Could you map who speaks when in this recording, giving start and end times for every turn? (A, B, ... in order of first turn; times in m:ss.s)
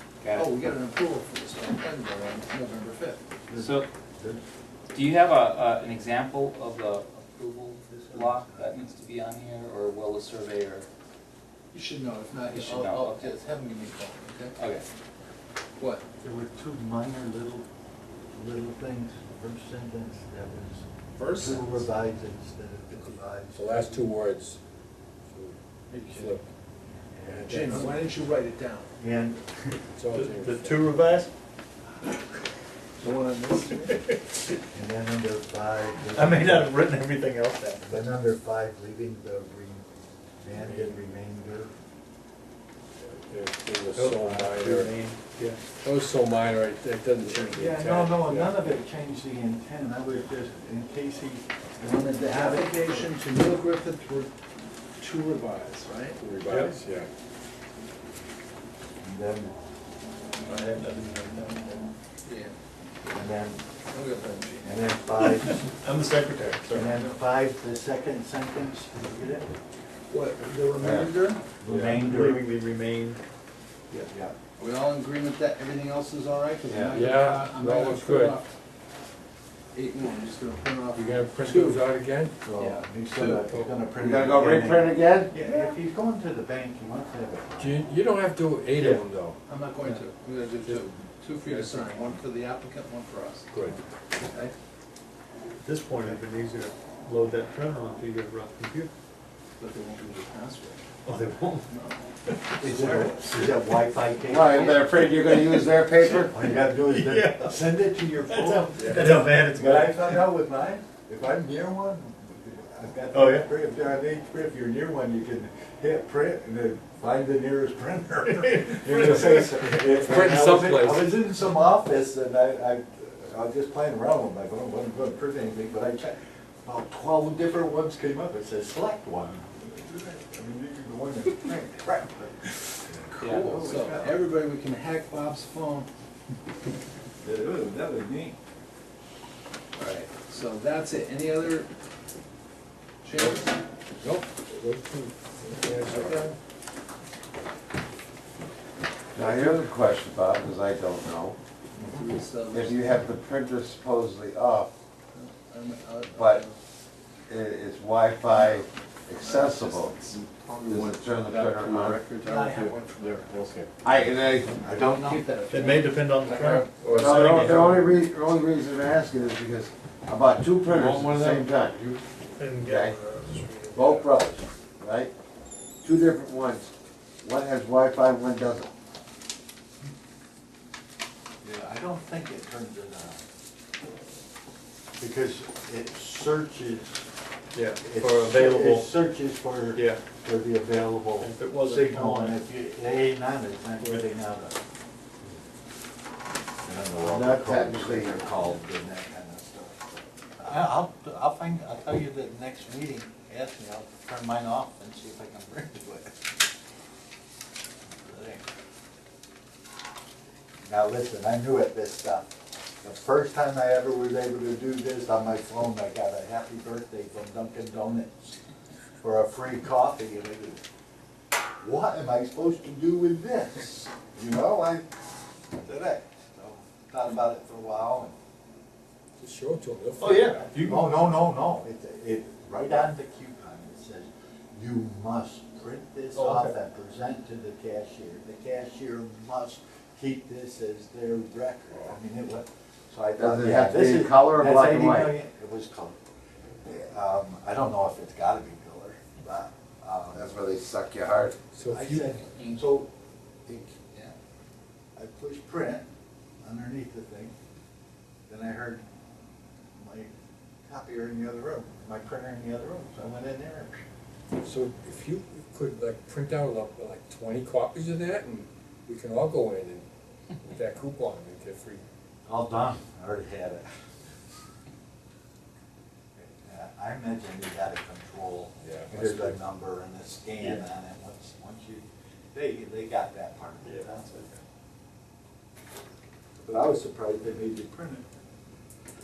0:00.2-0:00.5 A
0:00.3-0:03.2 B
0:03.5-0:04.4 C
0:03.6-0:03.9 A
0:04.9-0:10.9 A
0:07.9-0:08.7 C
0:11.7-0:14.5 B
0:12.5-0:13.4 A
0:14.6-0:14.8 A
0:15.8-0:16.0 B
0:16.2-0:17.7 C
0:18.3-0:24.0 C
0:21.2-0:21.8 B
0:23.6-0:24.6 D
0:25.3-0:26.5 D
0:25.9-0:26.4 B
0:27.1-0:28.0 C
0:27.2-0:28.0 D
0:27.5-0:28.9 B
0:29.0-0:29.8 C
0:29.9-0:31.0 D
0:30.1-0:31.3 E
0:33.0-0:34.1 B
0:34.7-0:36.9 C
0:36.1-0:38.0 E
0:37.8-0:39.9 C
0:40.4-0:41.7 C
0:40.5-0:41.0 D
0:43.1-0:45.0 D
0:43.9-0:45.6 E
0:45.7-0:48.7 D
0:47.5-0:53.1 C
0:52.3-0:54.3 B
0:55.0-0:56.7 B
0:56.2-0:57.1 D
0:56.5-0:56.7 E
0:59.0-0:59.5 C
1:00.5-1:01.8 E
1:02.2-1:02.6 B
1:03.1-1:03.6 C
1:03.9-1:04.7 B
1:04.6-1:05.6 C
1:05.4-1:07.0 E
1:06.7-1:09.5 C
1:10.1-1:11.4 B
1:10.8-1:11.1 F
1:11.6-1:12.5 C
1:11.7-1:13.2 E
1:14.1-1:14.4 C
1:14.6-1:18.5 B
1:16.7-1:17.0 F
1:16.9-1:18.4 D
1:19.7-1:21.8 B
1:21.0-1:22.4 D
1:22.4-1:27.7 C
1:22.6-1:23.4 B
1:23.3-1:23.7 D
1:24.0-1:25.3 F
1:27.6-1:29.4 D
1:29.5-1:33.6 B
1:31.5-1:32.0 D
1:33.5-1:33.8 D
1:34.2-1:34.5 B
1:35.6-1:38.9 E
1:39.6-1:40.8 B
1:41.1-1:41.7 E
1:41.7-1:43.5 B
1:42.6-1:45.1 C
1:44.2-1:46.4 F
1:46.3-2:14.2 C
1:46.8-1:47.7 E
1:48.2-1:50.2 E
1:53.1-1:53.5 E
1:58.8-2:01.1 D
2:13.1-2:15.9 B
2:13.2-2:13.6 A
2:17.2-2:18.4 C
2:19.8-2:21.7 B
2:23.0-2:23.6 B
2:24.0-2:26.3 D
2:25.9-2:26.3 B
2:29.1-2:31.4 F
2:29.2-2:29.6 D
2:31.8-2:33.1 B
2:32.5-2:34.7 F
2:35.1-2:36.6 B
2:36.1-2:36.4 F
2:37.3-2:40.1 F
2:39.2-2:40.2 B
2:40.5-2:43.7 D
2:40.7-2:42.0 F
2:42.2-2:43.5 B
2:43.8-2:44.5 F
2:44.6-2:45.3 C
2:44.7-2:46.7 B
2:45.5-2:47.8 E
2:46.6-2:47.9 D
2:46.9-2:52.0 F
2:50.7-2:51.5 D
2:52.4-2:53.8 E
2:52.6-2:53.0 F
2:53.7-2:55.1 F
2:55.8-2:56.7 F
2:57.2-2:58.7 F
3:01.4-3:03.2 C
3:05.0-3:07.0 C
3:07.5-3:09.0 E
3:07.8-3:14.6 C
3:09.8-3:10.0 E
3:11.2-3:12.4 E
3:13.8-3:14.1 E
3:16.6-3:26.3 C
3:17.0-3:18.3 F
3:27.8-3:28.4 C
3:30.6-3:32.3 C
3:32.8-3:38.4 C
3:39.0-3:40.6 C
3:41.6-3:44.8 C
3:45.6-3:48.1 C
3:49.2-3:50.6 D
3:50.0-3:51.0 E
3:50.1-4:06.0 C
3:56.2-3:56.6 E
4:03.2-4:05.2 F
4:06.6-4:10.4 C
4:10.1-4:11.4 F
4:11.5-4:12.2 D
4:11.7-4:12.9 C
4:12.3-4:12.6 A
4:13.5-4:14.1 C
4:15.0-4:15.9 C
4:16.4-4:17.3 C
4:18.3-4:18.8 C
4:19.8-4:20.1 C
4:20.7-4:23.8 C
4:24.4-4:29.8 D
4:30.4-4:31.8 D
4:32.3-4:33.6 C
4:36.2-4:44.1 C
4:38.6-4:39.4 D
4:43.6-4:44.3 E
4:46.4-4:48.0 C